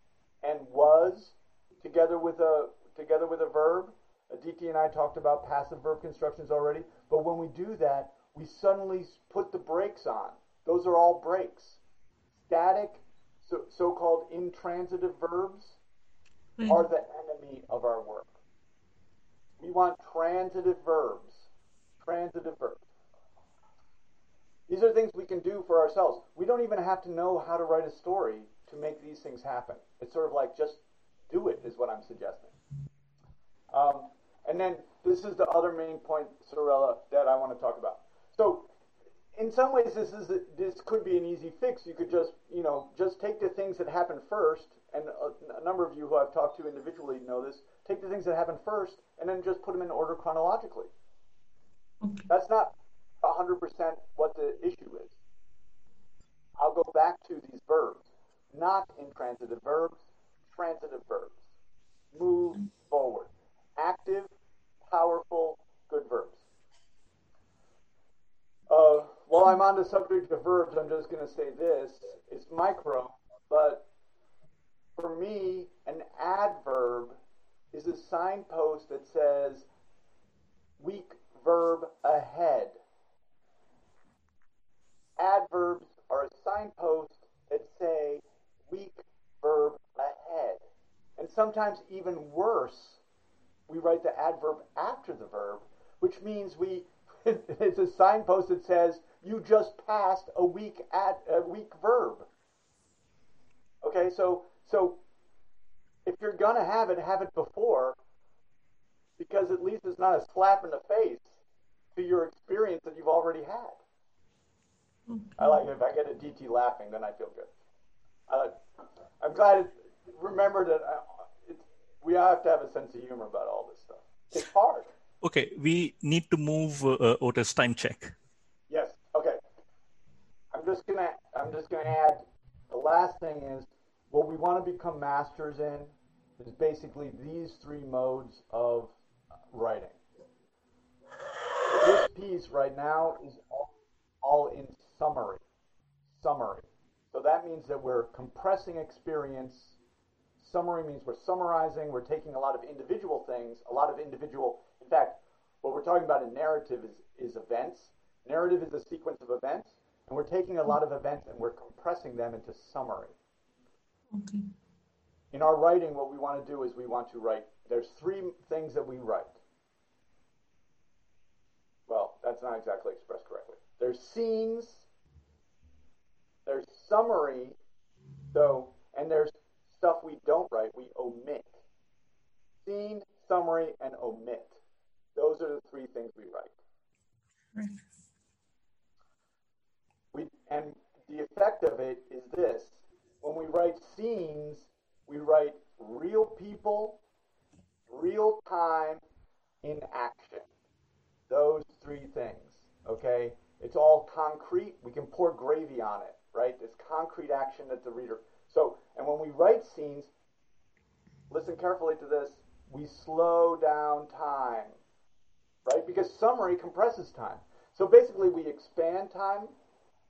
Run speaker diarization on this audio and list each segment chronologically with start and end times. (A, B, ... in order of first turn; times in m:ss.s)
0:00.4-0:11.8 A
0:12.5-0:15.8 A
0:16.6-0:16.8 B
0:16.7-0:18.3 A
0:19.6-0:21.4 A
0:22.0-0:22.8 A
0:24.7-0:32.5 A
0:33.7-0:38.7 A
0:39.3-0:50.9 A
0:52.0-0:52.3 B
0:52.3-0:55.2 A
0:56.6-1:00.0 A
1:00.5-1:01.4 A
1:02.1-1:04.3 A
1:04.8-1:06.4 A
1:08.7-1:13.8 A
1:15.0-1:17.2 A
1:17.7-1:19.7 A
1:20.8-1:22.8 A
1:25.2-1:30.6 A
1:31.2-1:33.0 A
1:33.7-1:42.3 A
1:43.8-1:45.0 A
1:46.0-1:48.0 A
1:49.2-1:51.3 A
1:51.9-1:53.8 A
1:55.1-1:55.6 B
1:55.4-1:57.5 A
1:58.3-1:58.6 A
1:59.2-2:04.9 A
2:05.2-2:08.1 C
2:08.7-2:09.4 A
2:10.5-2:18.9 A
2:19.5-2:20.0 A
2:21.7-2:23.7 A
2:24.2-2:25.4 A
2:26.1-2:29.8 A
2:30.4-2:43.1 A
2:44.1-2:44.5 B
2:45.3-2:49.4 A
2:51.9-2:54.8 A
2:56.4-2:57.6 A
2:58.3-3:01.5 A
3:02.6-3:04.6 A
3:05.2-3:06.5 A
3:07.5-3:07.8 B
3:10.1-3:17.0 A
3:17.9-3:19.0 A
3:19.6-3:20.5 A
3:21.3-3:30.1 A
3:31.3-3:34.8 A
3:35.6-3:39.5 A